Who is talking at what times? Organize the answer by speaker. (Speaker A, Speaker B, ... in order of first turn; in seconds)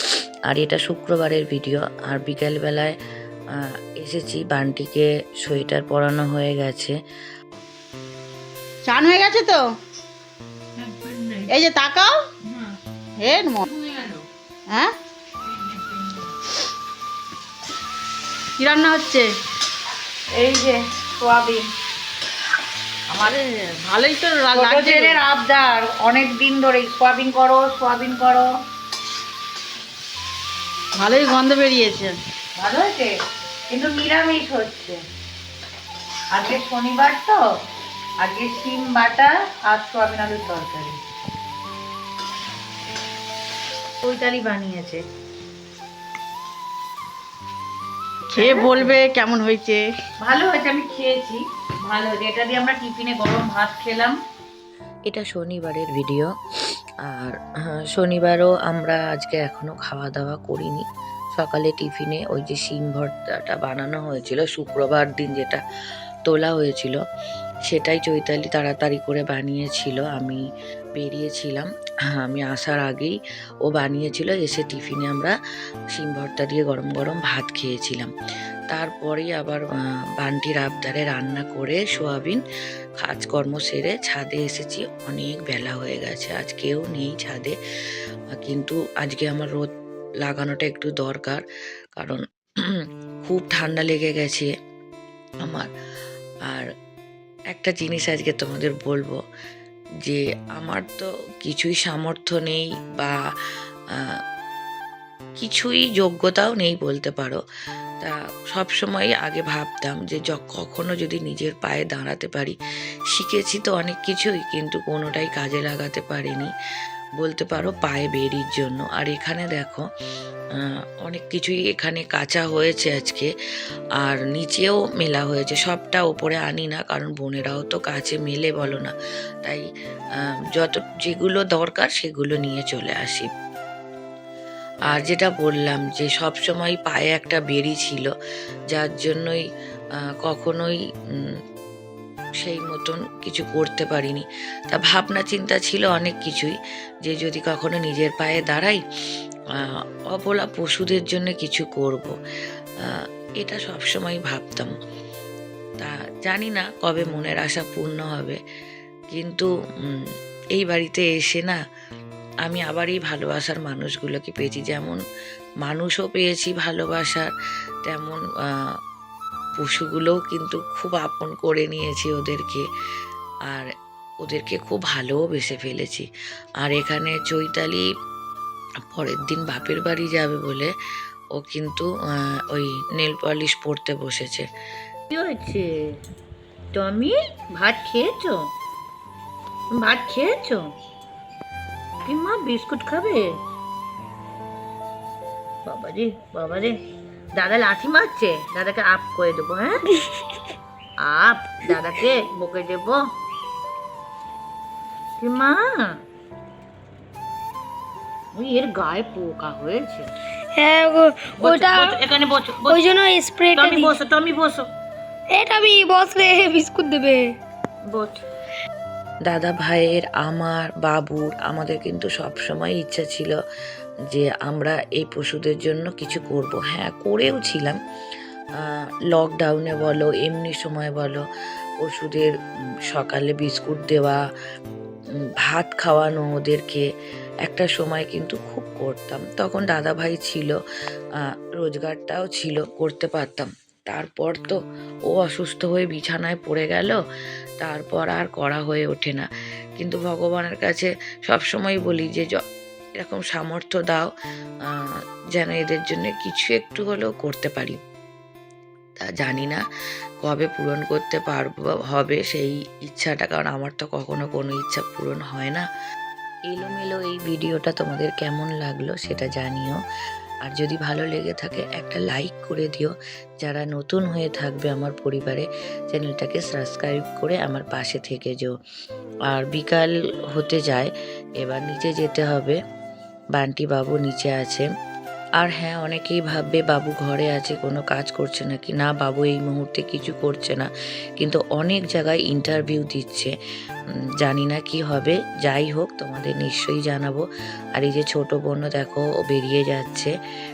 Speaker A: 0.5-2.9, 3.5-6.9, 55.1-56.3, 57.0-60.8, 61.4-65.6, 66.3-67.0, 67.7-70.4, 71.0-73.2, 73.7-75.3, 75.9-78.1, 78.7-82.4, 83.0-87.5, 88.4-91.4, 91.9-94.5, 97.5-99.2, 100.0-103.1, 105.4-107.4, 108.0-112.5, 113.1-116.5, 117.2-119.8, 120.6-123.3, 124.0-128.9, 130.2-133.3, 134.9-138.1, 138.7-139.4, 140.2-141.3, 142.4-148.8, 149.5-152.1, 152.8-154.7, 155.8-158.4, 159.1-161.6, 162.4-165.0, 165.6-167.3, 167.8-168.7, 169.6-172.6, 174.2-176.1, 176.6-177.8, 178.9-180.7, 181.3-181.9, 182.5-184.4, 219.3-223.3, 224.1-227.8, 228.6-231.2, 231.8-232.3, 232.9-234.2, 235.4-236.8, 237.4-240.5, 241.2-244.6, 245.1-247.0, 247.6-252.4, 253.0-254.1, 254.6-257.8, 259.0-259.6, 260.2-265.6, 266.5-269.8, 270.4-278.5, 279.3-280.9, 281.4-282.6, 283.4-284.7, 285.4-293.3, 294.2-297.2, 297.8-300.1
Speaker B: 8.8-9.6, 11.4-12.1, 13.2-14.2, 18.6-19.3, 23.1-25.2, 30.9-32.2, 48.3-49.8
Speaker C: 20.3-21.7, 24.5-28.5, 32.5-33.1, 33.7-35.0, 36.3-37.4, 38.2-41.0, 44.0-45.0, 48.4-48.9, 50.2-54.1, 185.2-185.6, 187.0-188.3, 189.8-190.5, 192.1-193.2, 195.7-196.8, 197.4-199.8, 201.0-203.0, 205.2-206.0, 208.3-210.1, 211.4-212.8, 213.6-214.7
Speaker D: 210.5-212.0, 212.7-214.0, 215.3-217.2